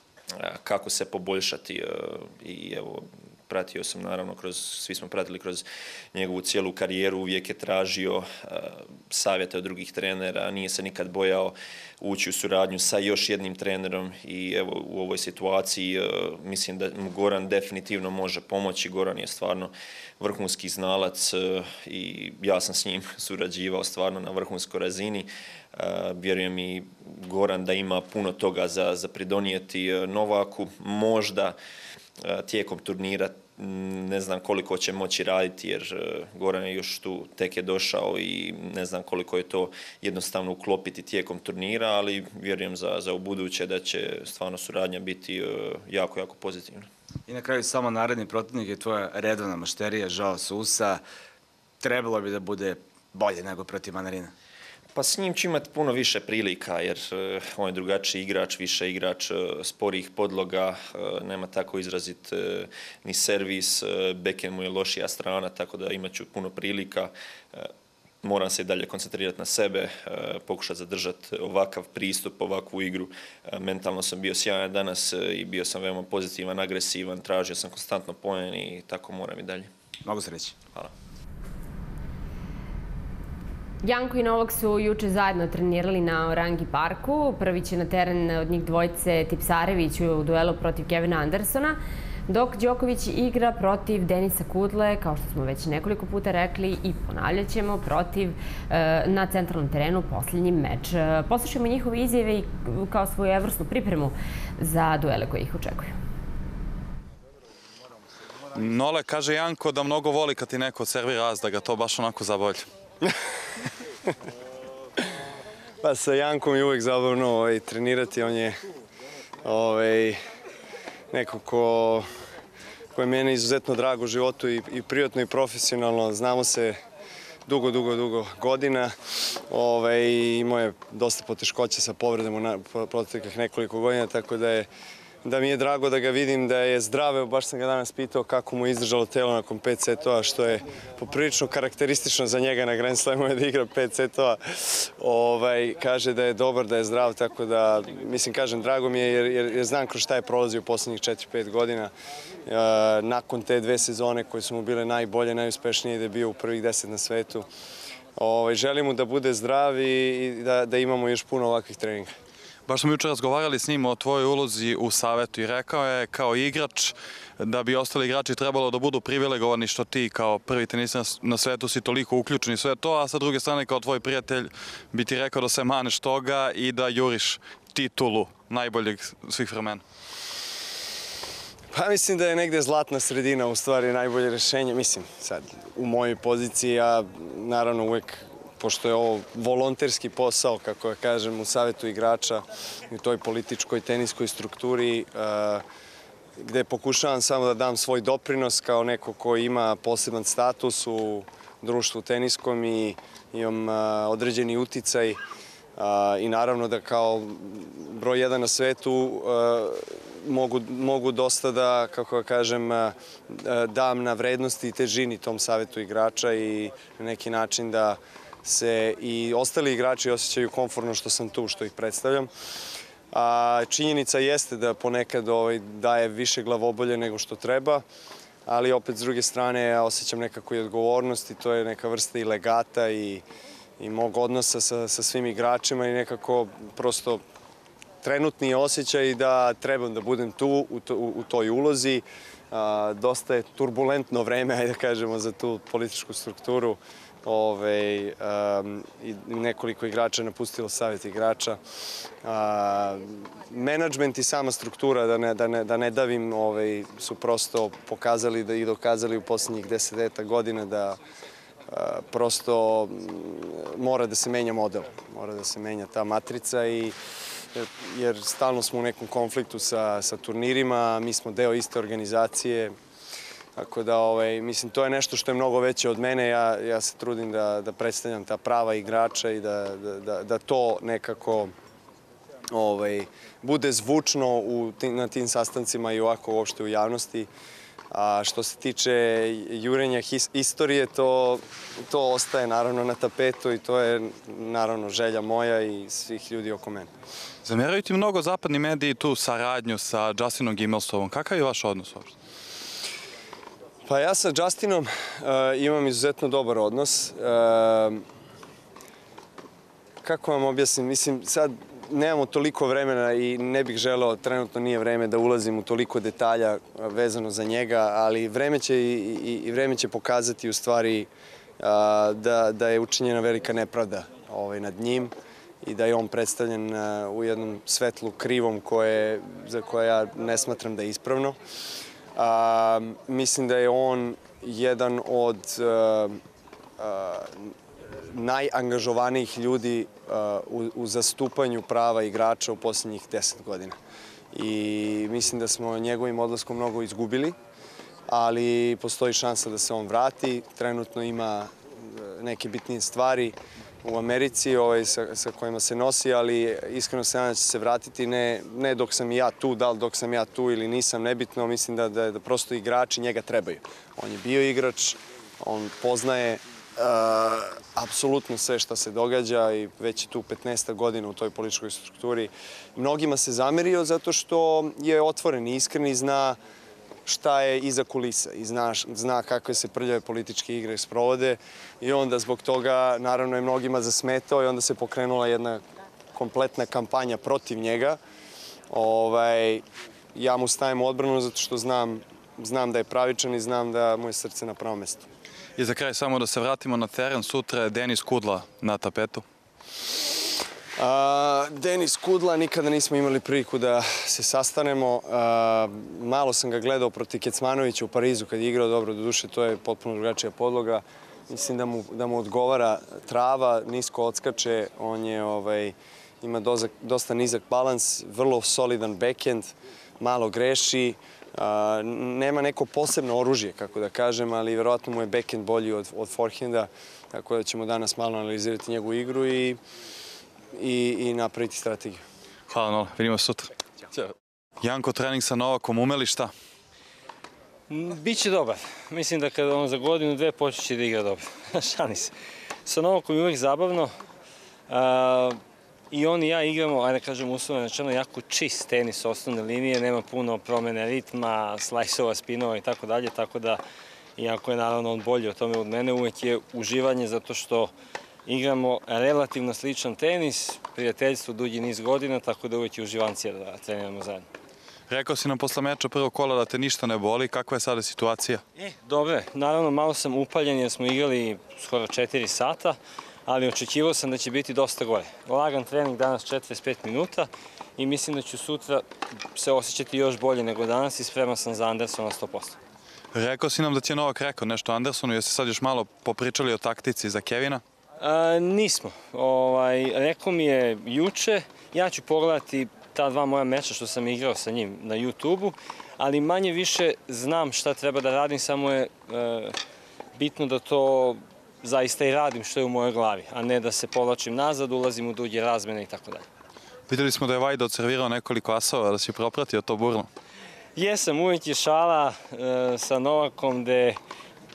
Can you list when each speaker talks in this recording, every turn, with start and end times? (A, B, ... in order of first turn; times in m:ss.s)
0:00.4-0:31.6 A
0:32.2-0:46.9 A
0:47.3-0:51.0 B
0:51.8-0:54.3 B
0:55.0-1:07.7 A
1:08.2-1:19.7 A
1:20.0-1:20.6 B
1:23.8-1:31.8 C
1:32.3-1:46.0 C
1:48.5-1:52.7 D
1:55.8-1:58.6 E
1:59.4-2:00.2 E
2:01.1-2:02.1 E
2:03.0-2:06.8 E
2:07.5-2:14.7 E
2:15.2-2:31.9 E
2:32.5-2:37.5 E
2:38.2-2:42.2 E
2:42.7-2:59.8 D
3:01.7-3:15.6 E
3:16.4-3:25.2 E
3:25.8-3:42.3 E
3:43.1-3:47.8 E
3:48.5-3:53.2 E
3:53.8-3:57.2 E
3:58.0-4:11.6 E
4:12.2-4:21.0 E
4:21.7-4:27.0 E
4:27.5-4:32.8 E
4:33.6-4:41.5 E
4:42.5-4:47.3 E
4:47.9-4:56.9 E
4:57.4-5:02.1 D
5:03.8-5:08.0 E
5:10.0-5:21.1 E
5:21.6-5:31.4 E
5:32.2-5:36.2 E
5:36.8-5:37.5 E
5:38.0-5:43.8 E
5:44.3-5:47.4 E
5:48.1-6:16.4 E
6:17.1-6:25.6 E
6:26.1-6:28.0 E
6:28.7-6:35.1 E
6:35.6-6:39.2 D
6:40.8-7:09.6 E
7:10.5-7:12.0 E
7:12.5-7:16.3 D
7:17.7-7:22.1 F
7:22.6-7:23.9 F
7:24.7-7:25.4 F
7:25.9-7:33.6 F
7:34.2-7:37.7 F
7:38.3-7:44.3 F
7:44.9-7:48.4 D
7:48.6-8:02.6 F
8:03.1-8:07.6 D
8:08.0-8:19.6 F
8:20.2-8:26.2 F
8:26.9-8:30.1 D
8:30.8-8:34.0 F